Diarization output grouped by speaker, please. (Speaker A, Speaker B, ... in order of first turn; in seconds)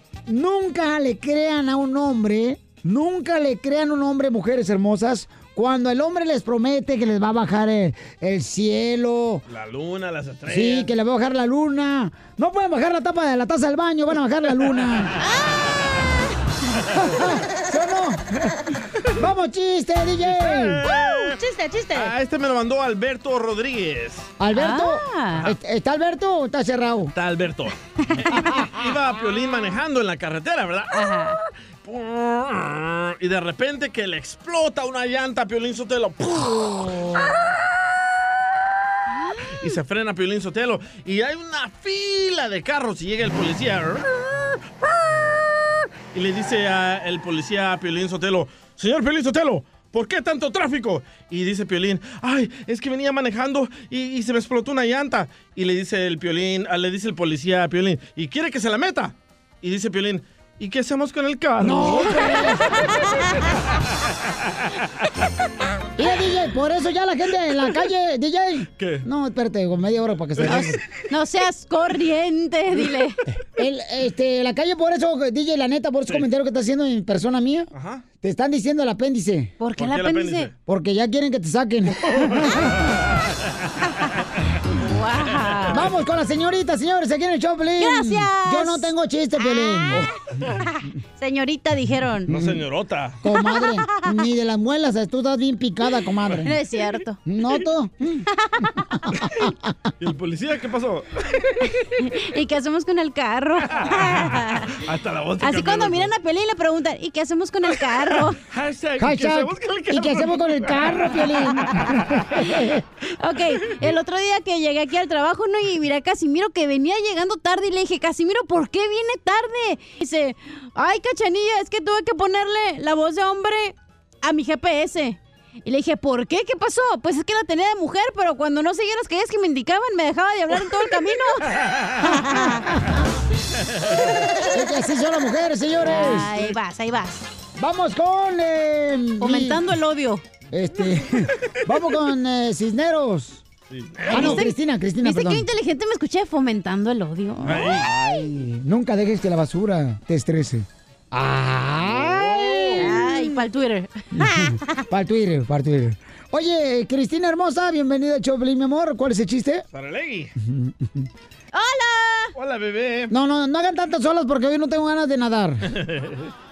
Speaker A: 0.3-9.4, 10.5-15.1, 17.0-18.6, 19.1-20.8, 24.4-27.1, 61.6-62.6, 66.0-70.8, 73.5-77.7, 78.2-79.5, 80.7-82.7, 85.7-90.0, 92.3-92.6, 93.2-96.5, 97.2-98.2, 99.0-99.7, 109.0-112.8, 134.5-136.4, 137.6-139.7, 140.5-143.4, 144.1-145.4, 147.5-153.2, 154.1-159.6, 160.4-161.1, 163.1-165.7
Speaker B: 9.5-10.9, 20.2-21.4, 21.9-24.3, 27.1-31.0, 31.8-37.2, 39.6-44.0, 46.1-62.3, 68.8-69.0, 70.4-70.7, 77.7-78.0, 79.8-80.5, 82.1-83.0, 85.4-85.8, 92.3-93.2, 100.0-101.2, 103.7-106.1, 107.7-111.9, 143.7-144.5, 147.4-147.9, 151.8-153.0, 159.7-160.3, 162.3-163.1, 165.8-166.2
Speaker C: 15.2-15.7, 20.9-22.1, 24.5-25.4, 30.9-31.4, 62.3-63.3, 70.5-73.2, 79.6-80.5, 84.8-85.8, 87.8-90.1, 90.7-92.3, 93.3-94.2, 96.4-97.2, 102.0-104.8, 105.4-108.4, 113.2-132.8, 135.8-137.3, 139.2-140.2, 144.1-147.7, 152.8-154.8, 161.5-162.3